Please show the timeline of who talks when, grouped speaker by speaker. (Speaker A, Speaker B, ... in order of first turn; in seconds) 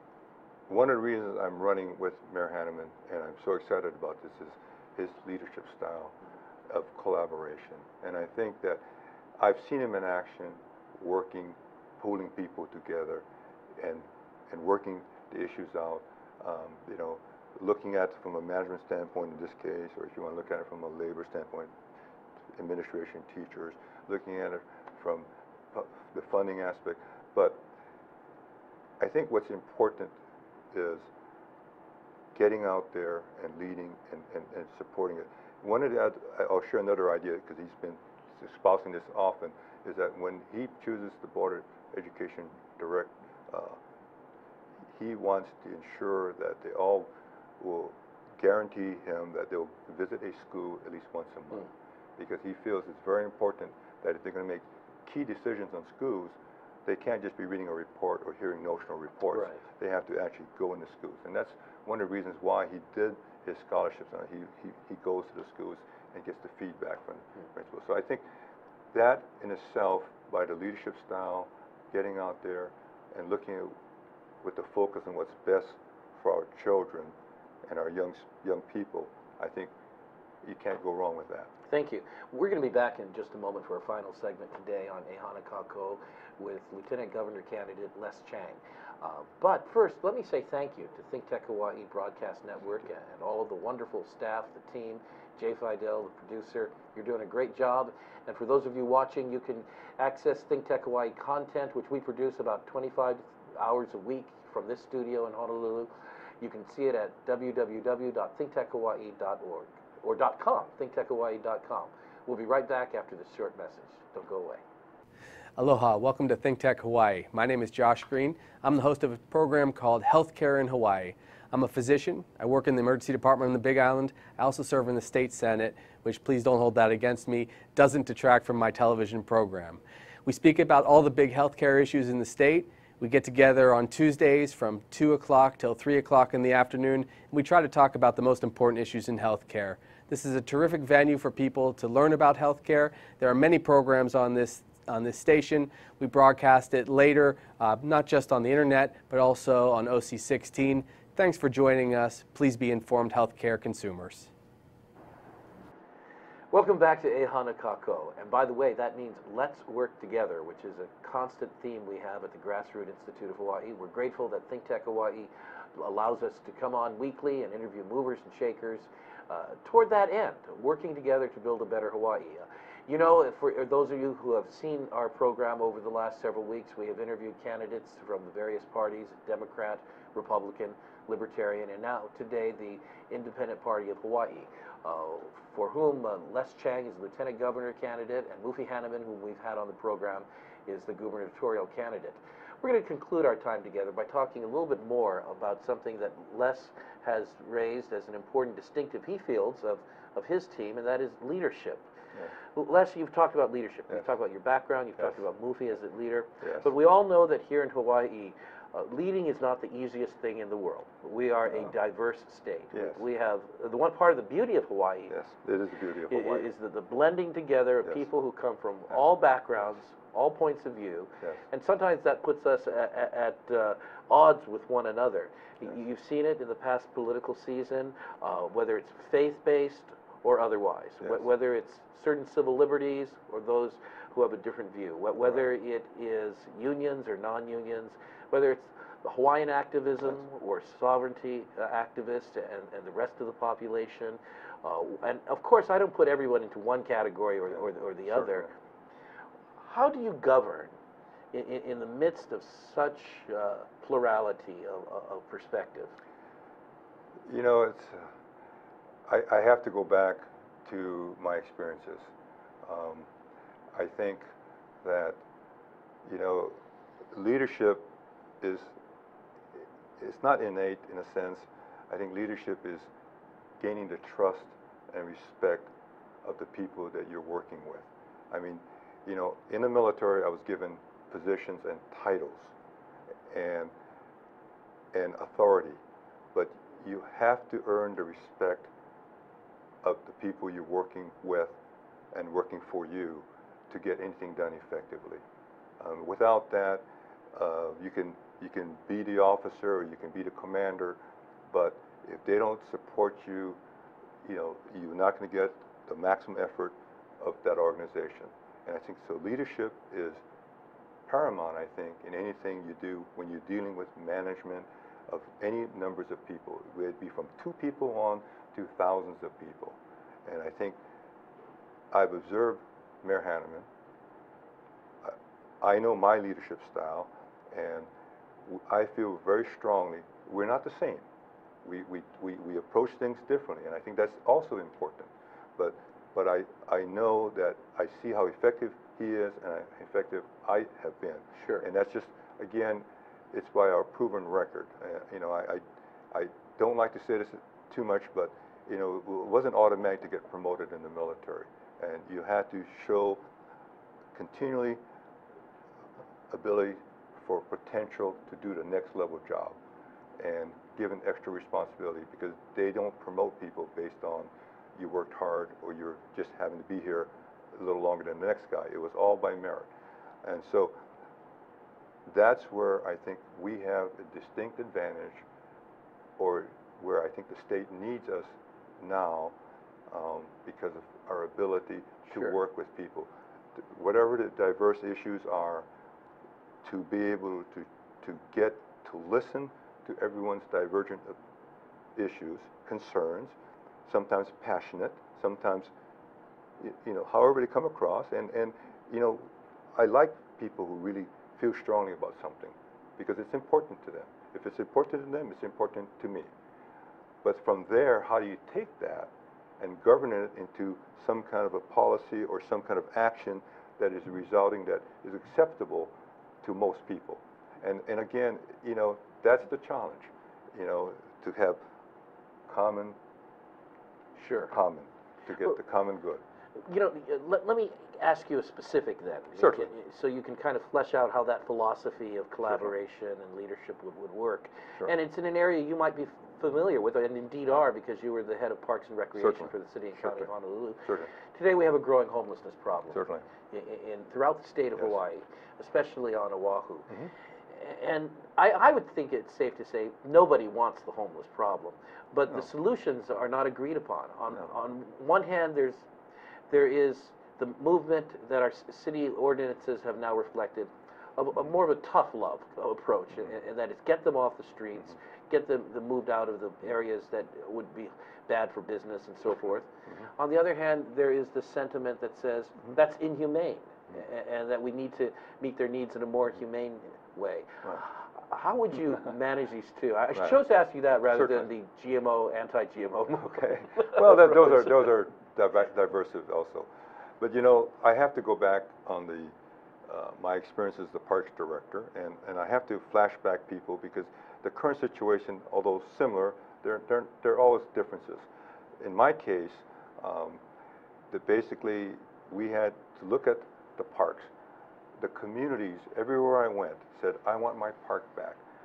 Speaker A: 0.7-6.2, 6.7-8.8, 9.4-13.2, 13.8-21.7, 22.5-27.6, 29.0-30.1, 30.7-31.1, 32.3-43.8, 44.9-68.2, 68.9-73.7, 74.4-77.1, 77.7-79.7, 80.4-81.5, 206.4-206.7, 212.7-213.0, 215.1-216.5, 248.1-248.5, 257.2-258.1, 259.1-262.1, 262.6-263.1, 263.7-264.3, 264.8-265.2, 266.1-266.6, 267.1-267.9, 268.4-268.7, 270.0-272.9, 273.6-275.7, 276.2-282.5, 283.3-283.7, 284.9-285.8, 286.3-288.7, 289.8-291.6, 292.1-295.2, 295.8-301.0, 301.5-303.6, 304.2-310.2, 311.1-320.8, 321.9-323.7, 325.0-327.9, 328.4-331.1, 331.6-353.2, 354.1-354.8, 356.3-359.6, 360.2-369.7, 370.2-370.8, 372.1-375.2, 376.2-379.3, 379.9-385.6, 386.6-391.1, 391.9-393.3, 393.9-395.7, 396.6-406.3, 407.2-421.6, 422.5-423.0, 424.5-426.2, 429.4-429.7, 439.2-440.3, 440.8-441.1, 442.9-443.2, 481.1-481.4, 483.3-489.3, 489.9-498.2, 498.8-500.4, 501.1-504.3, 505.0-508.4
Speaker B: 59.3-59.6, 81.7-114.6, 156.5-201.9, 202.5-215.1, 216.1-248.5, 249.6-250.7, 251.3-255.9, 341.4-341.6, 424.1-424.5, 426.6-446.9, 447.5-455.9, 456.5-484.8
Speaker C: 115.6-154.3